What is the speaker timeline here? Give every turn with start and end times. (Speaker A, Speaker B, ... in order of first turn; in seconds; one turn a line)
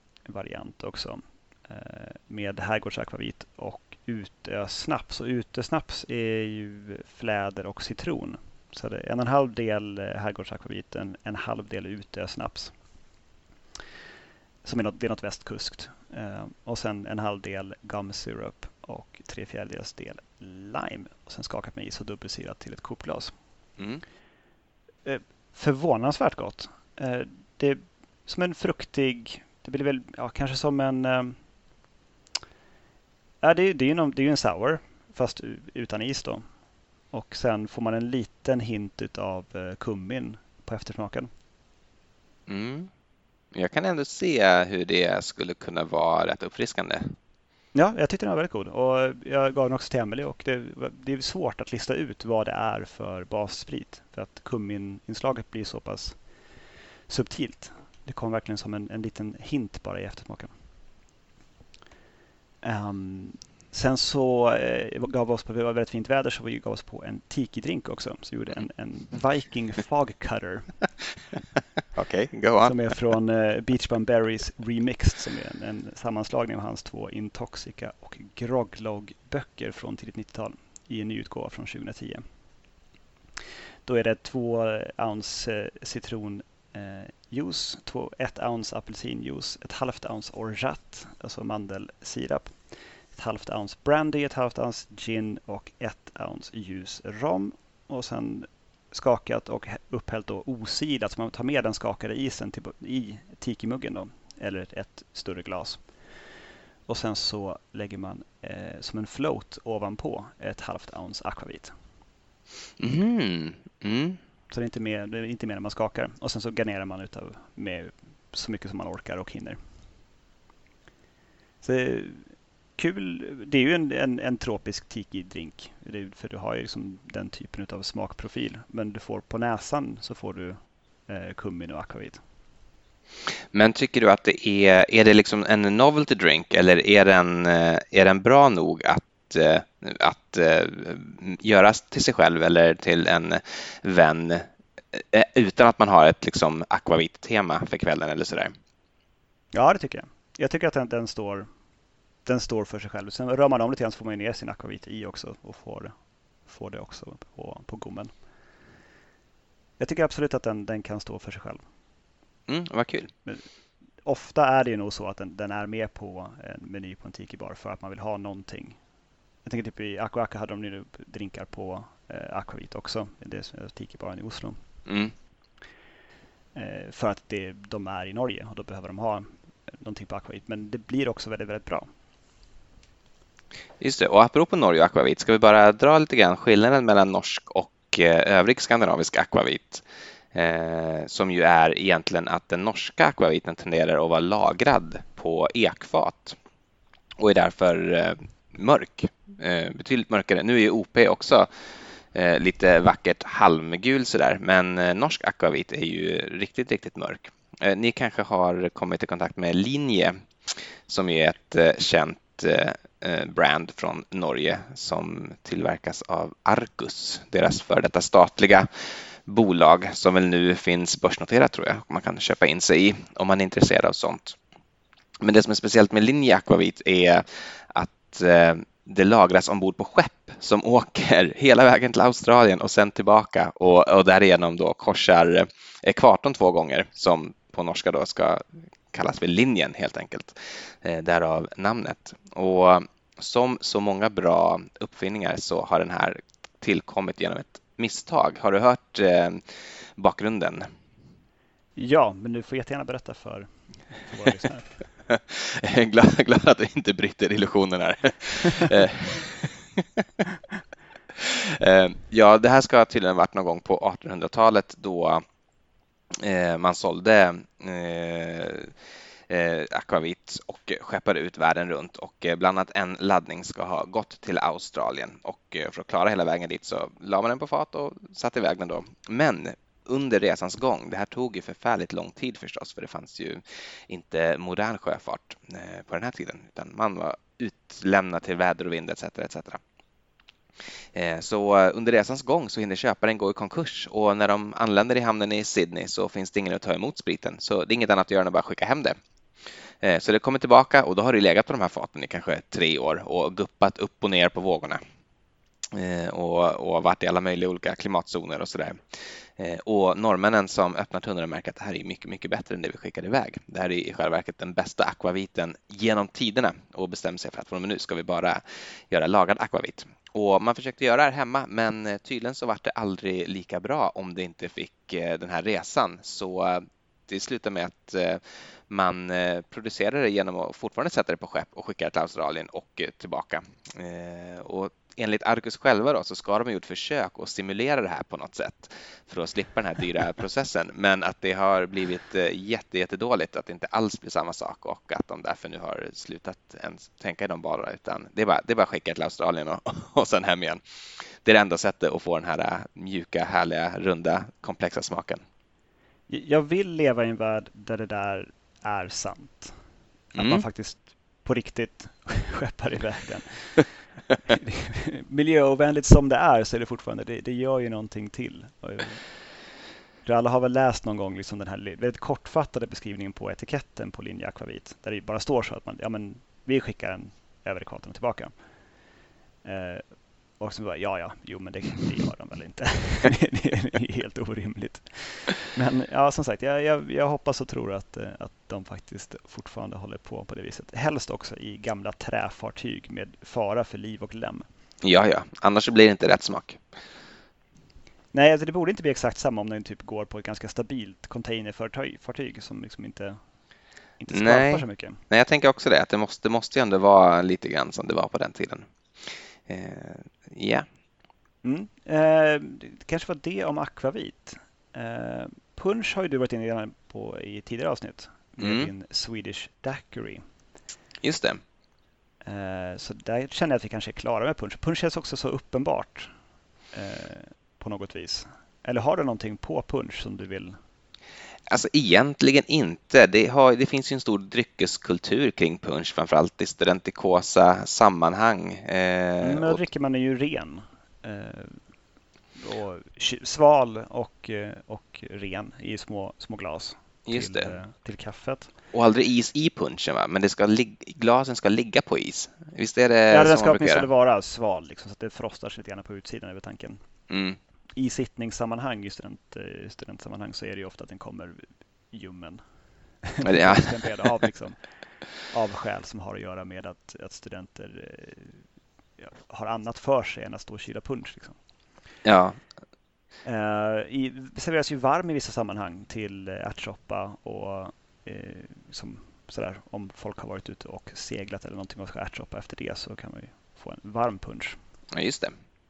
Speaker A: 0.2-12.7
Speaker A: 14.6-23.3
Speaker A: 25.0-31.4
Speaker A: 33.4-36.4
Speaker A: 37.1-41.3
Speaker B: 42.5-42.9
Speaker B: 43.5-47.1
Speaker A: 47.7-56.2
Speaker A: 57.1-60.5
Speaker A: 62.6-70.7
Speaker B: 71.9-72.8
Speaker A: 72.6-82.2
Speaker A: 83.8-92.6
Speaker A: 93.1-105.8
Speaker A: 106.9-111.7
Speaker B: 112.8-114.2
Speaker A: 114.5-119.6
Speaker A: 121.6-132.2
Speaker B: 133.5-148.5
Speaker A: 149.5-151.5
Speaker A: 152.2-155.9
Speaker A: 156.5-158.1
Speaker A: 159.8-161.6
Speaker B: 162.5-163.1
Speaker A: 164.0-168.8
Speaker A: 169.4-174.6
Speaker B: 174.8-175.1
Speaker A: 176.5-181.8
Speaker B: 183.8-196.4
Speaker B: 197.2-201.5
Speaker B: 202.1-218.7
Speaker B: 219.2-224.4
Speaker B: 225.2-249.4
Speaker B: 250.0-250.7
Speaker A: 251.8-254.7
Speaker B: 255.1-260.2
Speaker B: 261.1-265.2
Speaker B: 266.1-268.7
Speaker B: 269.3-289.6
Speaker B: 290.9-298.9
Speaker B: 299.8-304.8
Speaker B: 305.7-350.6
Speaker B: 351.2-355.2
Speaker A: 356.1-359.5
Speaker A: 360.1-363.7
Speaker B: 360.1-360.4
Speaker A: 364.2-369.0
Speaker A: 370.0-378.3
Speaker A: 379.4-394.4
Speaker B: 394.8-396.6
Speaker A: 398.1-403.2
Speaker A: 404.0-405.0
Speaker B: 404.1-410.6
Speaker A: 411.4-420.2
Speaker B: 418.4-418.7
Speaker B: 421.0-421.4
Speaker A: 422.2-426.1
Speaker A: 426.7-430.6
Speaker B: 431.5-439.6
Speaker A: 439.2-441.6
Speaker A: 442.4-448.5
Speaker B: 447.1-447.5
Speaker B: 448.7-453.9
Speaker A: 453.1-456.8
Speaker B: 457.1-457.4
Speaker A: 457.8-462.4
Speaker A: 463.0-464.6
Speaker B: 463.2-463.8
Speaker A: 465.3-468.4
Speaker A: 469.0-471.4
Speaker B: 472.0-472.4
Speaker A: 473.2-484.6
Speaker B: 484.9-485.3